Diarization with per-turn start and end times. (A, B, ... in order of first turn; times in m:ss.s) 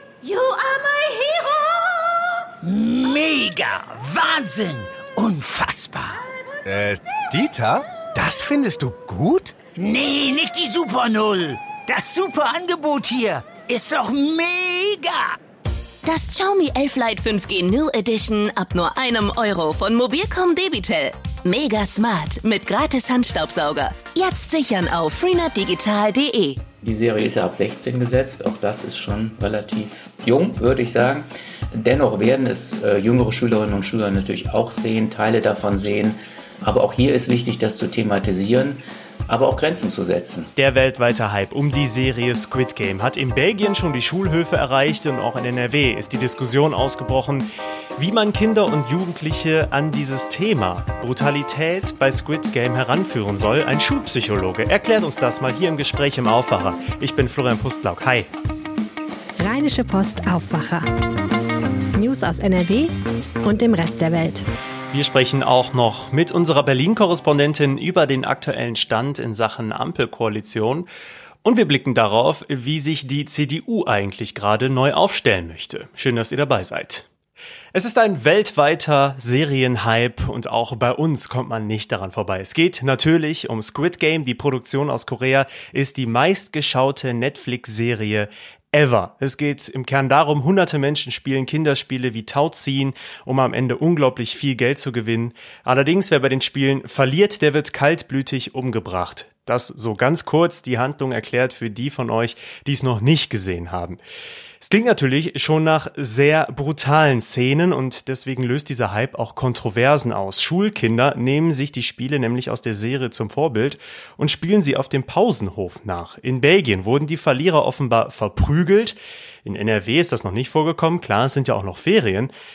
0:00.2-0:01.8 A
0:02.6-0:06.1 B
0:06.7-0:09.6 C
0:09.7-0:15.4 B
0:16.0-0:26.6 A
0:26.8-0:40.5 D
0:40.6-0:58.3 E
0:59.4-1:00.9 F
1:02.0-1:02.9 F
1:03.4-1:04.4 F
1:04.9-1:10.9 E
1:11.4-1:17.1 E
1:17.7-1:44.0 E
1:44.6-2:02.3 E